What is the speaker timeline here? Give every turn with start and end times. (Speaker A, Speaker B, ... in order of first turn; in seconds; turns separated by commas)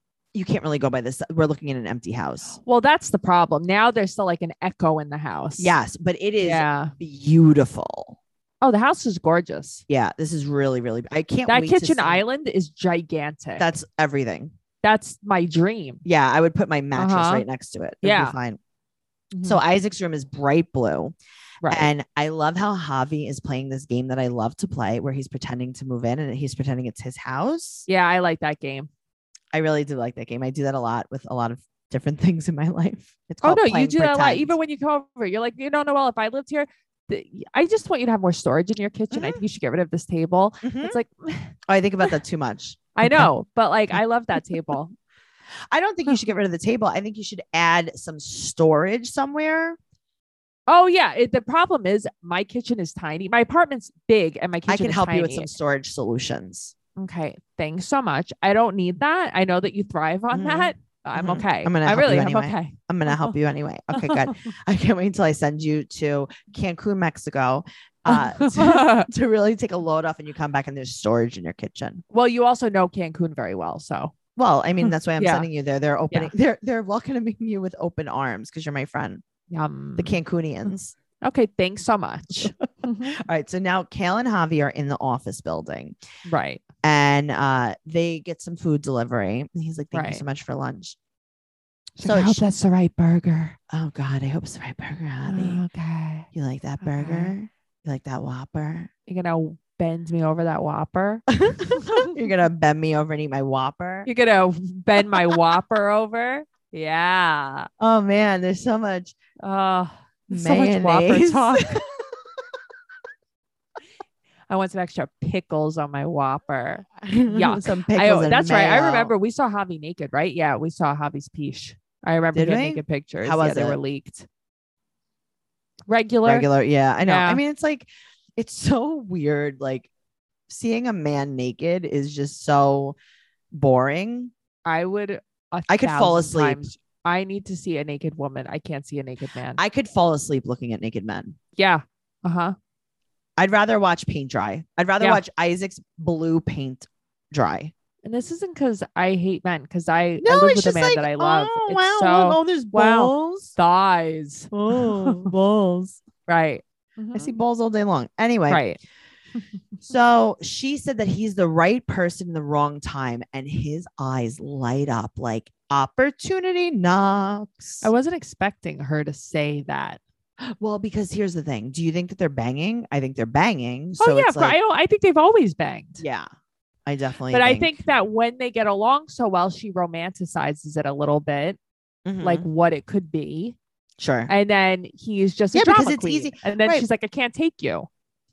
Speaker A: 0.3-2.6, Speaker B: 2.6-5.7, Speaker A: 5.6-8.2, Speaker B: 6.4-6.9, Speaker B: 8.6-9.8, Speaker A: 9.9-12.2, Speaker B: 11.5-13.7, Speaker A: 13.6-14.5, Speaker B: 14.8-16.0, Speaker A: 16.0-18.6, Speaker B: 16.9-17.4, Speaker B: 18.0-18.3, Speaker B: 19.3-19.6, Speaker A: 19.4-21.1, Speaker B: 21.6-21.9, Speaker A: 21.7-27.9, Speaker B: 27.9-28.9, Speaker A: 29.5-34.5, Speaker B: 33.4-41.5, Speaker A: 39.1-39.4, Speaker A: 40.6-41.0, Speaker A: 41.7-43.3, Speaker B: 43.0-44.9, Speaker A: 45.7-49.8, Speaker B: 50.7-55.5, Speaker A: 54.7-56.7, Speaker B: 57.0-63.3, Speaker A: 60.3-72.0, Speaker B: 63.9-64.3, Speaker B: 68.1-69.1, Speaker B: 72.1-74.1, Speaker A: 74.3-79.2, Speaker B: 74.8-75.5, Speaker B: 79.5-80.2, Speaker A: 80.0-80.9, Speaker B: 81.2-83.2, Speaker A: 82.3-86.0, Speaker B: 86.2-86.6, Speaker A: 86.8-91.0, Speaker B: 89.9-90.2, Speaker B: 92.0-93.5, Speaker A: 92.0-92.4, Speaker A: 93.7-95.6, Speaker B: 95.2-96.3, Speaker A: 96.3-98.9, Speaker B: 96.8-97.3, Speaker B: 99.1-102.1, Speaker A: 101.3-104.1, Speaker B: 104.0-107.7, Speaker A: 107.8-109.1, Speaker B: 109.4-111.8, Speaker A: 110.3-112.0, Speaker B: 114.5-124.3, Speaker A: 117.0-119.1, Speaker A: 122.3-123.8, Speaker B: 125.9-126.5, Speaker A: 126.2-129.9, Speaker B: 127.0-127.4, Speaker A: 130.5-132.9, Speaker A: 133.5-134.3, Speaker B: 134.6-139.6, Speaker A: 135.7-136.7, Speaker A: 139.6-141.3, Speaker B: 141.6-142.5, Speaker A: 143.4-147.7, Speaker B: 148.0-155.3, Speaker A: 150.2-153.5, Speaker A: 154.5-156.0, Speaker B: 156.3-157.3, Speaker A: 157.1-158.6, Speaker B: 158.5-158.8, Speaker A: 159.8-167.9, Speaker B: 167.8-170.0, Speaker A: 170.6-174.6, Speaker B: 174.0-176.0, Speaker A: 176.0-176.3, Speaker A: 176.8-177.7, Speaker B: 177.3-181.6, Speaker A: 182.0-182.4, Speaker B: 182.2-183.6, Speaker A: 184.0-184.3, Speaker B: 184.3-187.9, Speaker A: 185.5-186.8